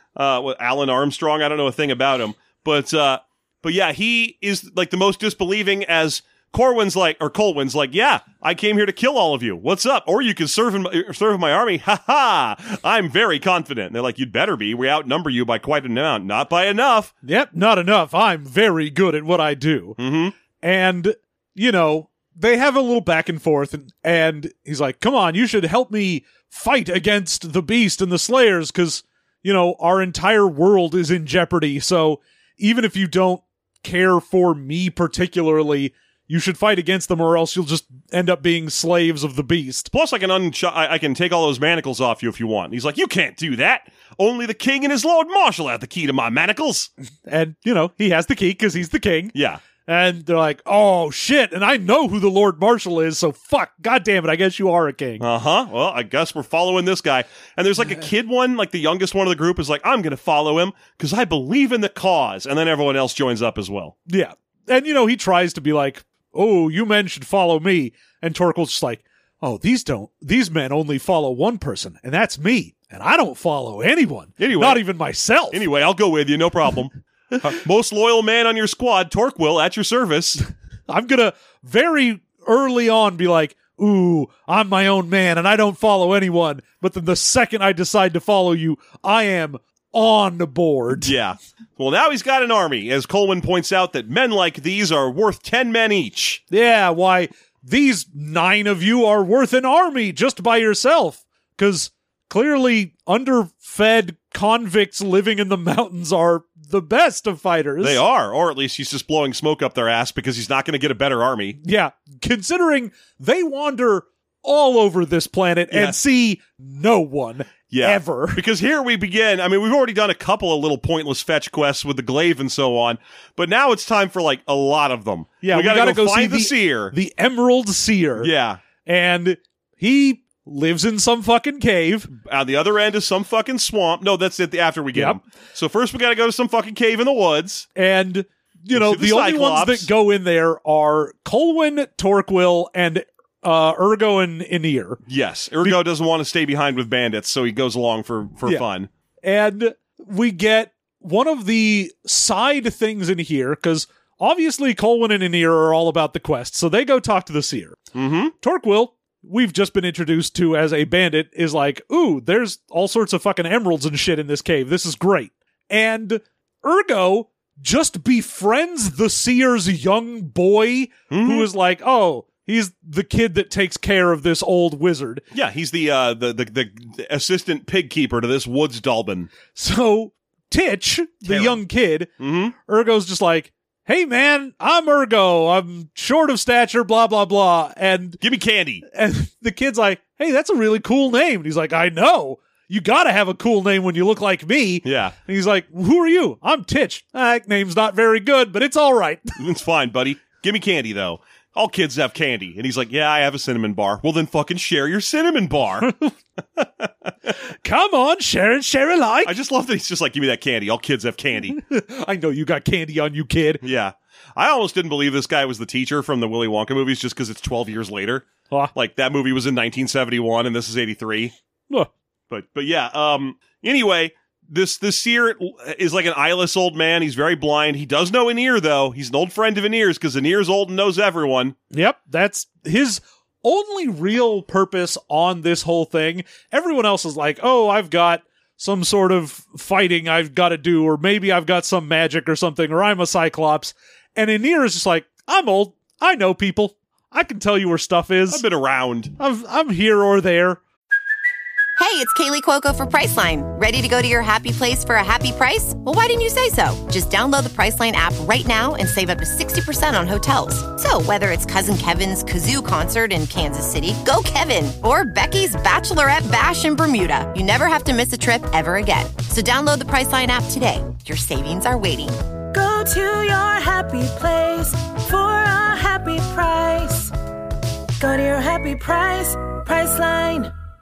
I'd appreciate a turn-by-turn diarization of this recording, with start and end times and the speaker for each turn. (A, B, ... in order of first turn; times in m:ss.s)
0:00.2-0:17.1 A
0:17.2-0:20.0 B
0:20.0-0:20.4 A
0:20.6-0:39.9 B
0:39.9-0:46.9 A
0:47.3-0:55.3 B
0:49.3-0:49.6 A
0:55.2-1:04.0 A
1:04.1-1:15.7 B
1:14.4-1:14.8 A
1:15.5-1:20.4 A
1:20.9-1:31.1 B
1:30.9-1:36.4 A
1:36.5-1:48.0 B
1:47.8-1:51.6 A
1:51.6-1:58.4 B
1:55.7-1:56.0 A
1:57.7-2:06.9 A
2:05.4-2:08.3 B
2:08.2-2:08.6 A
2:08.8-2:12.1 B
2:12.1-2:17.7 A
2:14.9-2:15.2 B
2:17.8-2:25.0 B
2:18.7-2:19.9 A
2:25.1-2:28.9 A
2:29.2-2:37.8 B
2:37.9-2:38.3 A
2:38.4-2:55.2 B
2:51.1-2:51.5 A
2:55.3-2:59.3 A
2:59.5-3:02.1 B
3:01.3-3:01.6 A
3:02.2-3:02.5 A
3:02.7-3:08.2 B
3:08.2-3:08.8 A
3:08.9-3:19.4 B
3:14.8-3:15.2 A
3:19.4-3:25.9 A
3:25.8-3:26.1 B
3:26.6-3:27.1 A
3:27.6-3:29.3 B
3:29.2-3:31.6 A
3:31.5-3:33.6 B
3:33.6-3:41.3 A
3:42.3-3:51.6 A
3:51.7-4:08.4 B
4:08.3-4:09.1 A
4:09.2-4:10.6 B
4:11.8-4:32.2 C
4:32.5-4:37.1 D
4:38.0-4:40.5 D